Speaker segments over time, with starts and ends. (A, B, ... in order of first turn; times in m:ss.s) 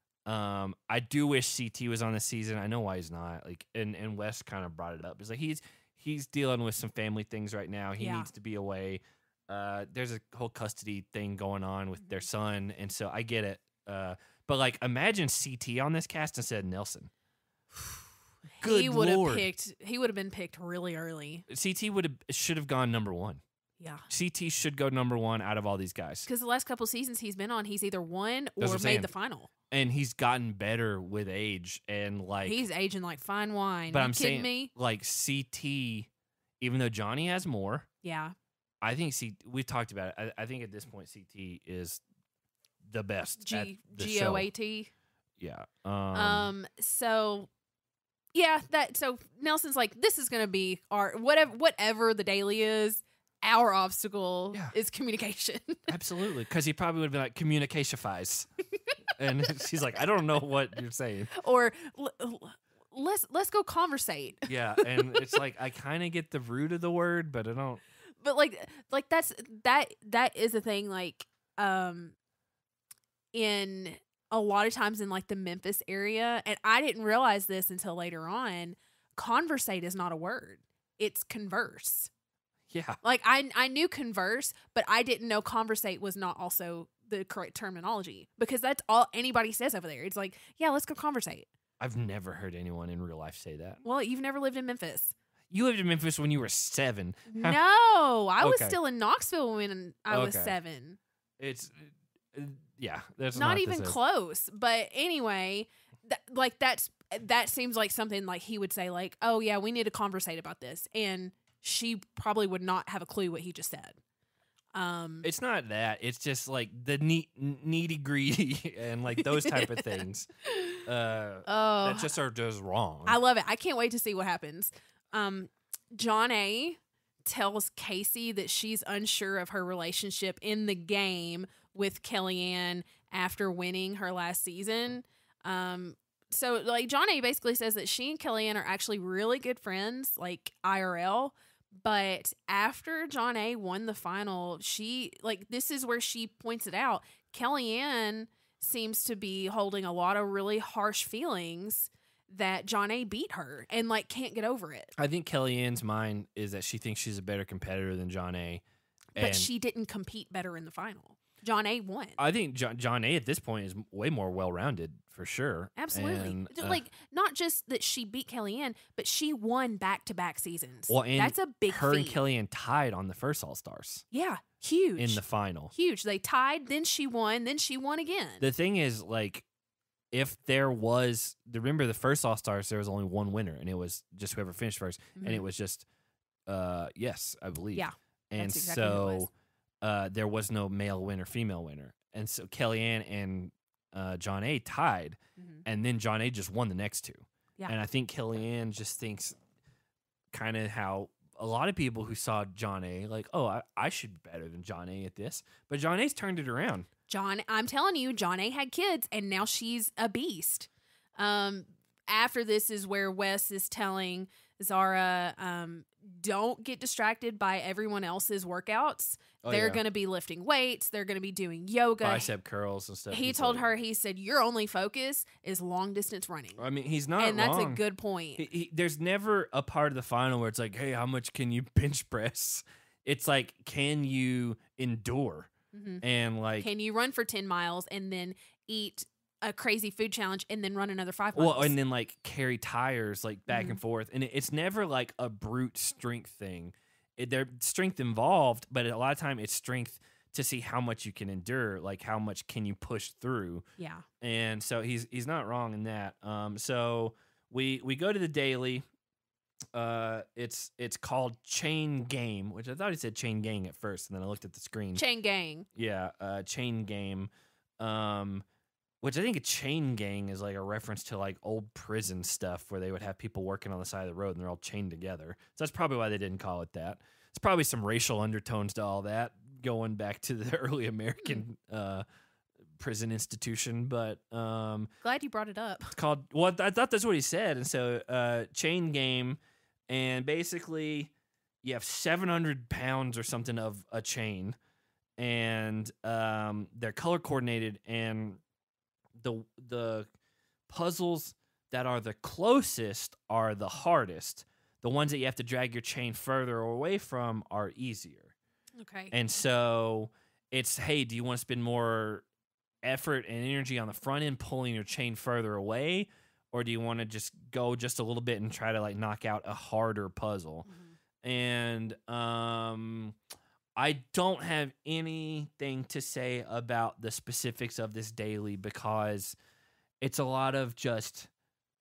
0:00.2-0:17.1 A
0:08.0-0:08.3 B
0:18.6-0:21.4 B
0:18.6-0:19.5 A
0:21.5-0:23.4 A
0:23.8-0:24.0 B
0:24.1-0:26.3 A
0:26.3-0:29.5 B
0:28.6-0:29.1 A
0:29.7-0:32.6 A
0:32.4-0:34.7 B
0:33.9-0:36.1 A
0:36.6-0:37.9 A
0:38.0-0:38.3 B
0:38.8-0:42.0 A
0:42.8-0:44.5 A
0:43.4-0:44.9 B
0:45.4-0:46.5 A
0:46.1-0:47.5 B
0:48.3-0:55.9 B
0:55.9-0:58.5 A
0:59.1-1:01.3 A
1:01.3-1:05.3 B
1:04.5-1:07.8 A
1:08.2-1:12.1 B
1:13.3-1:22.1 B
1:22.7-1:23.0 A
1:23.0-1:31.5 B
1:31.8-1:33.8 A
1:33.8-1:35.1 B
1:35.5-1:37.6 A
1:37.3-1:41.0 B
1:38.4-1:38.8 A
1:40.1-1:40.5 A
1:41.4-1:44.0 A
1:43.3-1:54.0 B
1:54.7-1:55.3 B
1:55.2-2:00.3 A
1:59.1-2:00.8 B
2:00.8-2:03.2 A
2:01.4-2:02.1 B
2:03.0-2:34.9 B
2:35.0-2:38.6 A
2:39.2-2:42.2 B
2:39.2-2:39.5 A
2:42.2-2:46.8 A
2:45.8-2:52.2 B
2:50.9-2:54.0 A
2:54.1-2:55.2 B
2:55.0-2:55.7 A
2:55.7-2:58.4 B
2:58.4-2:59.4 A
3:00.1-3:05.8 A
3:05.2-3:05.4 B
3:06.5-3:09.3 A
3:07.7-3:09.3 B
3:09.8-3:19.4 A
3:15.4-3:15.6 B
3:20.3-3:26.9 A
3:27.1-3:42.3 B
3:39.4-3:39.8 A
3:42.0-3:43.7 A
3:43.1-3:46.6 B
3:46.6-3:47.8 A
3:47.2-3:48.4 B
3:48.4-3:55.5 A
3:55.7-3:56.0 B
3:56.0-3:56.7 A
3:56.6-4:01.7 B
4:01.3-4:13.6 A
4:03.5-4:03.8 B
4:13.8-4:14.0 B
4:14.2-4:18.8 A
4:19.7-4:25.0 A
4:25.0-4:25.6 B
4:25.7-4:28.4 A
4:29.0-4:42.0 A
4:42.8-4:44.9 A
4:45.0-4:46.0 B
4:46.0-4:51.1 A
4:51.6-4:54.6 A
4:55.2-4:58.4 A
4:59.2-5:00.1 A
5:00.7-5:08.3 A
5:08.8-5:09.1 B
5:09.1-5:12.2 A
5:12.8-5:20.7 A
5:20.6-5:20.9 B
5:21.2-5:23.2 A
5:23.8-5:29.3 A
5:30.0-5:31.3 A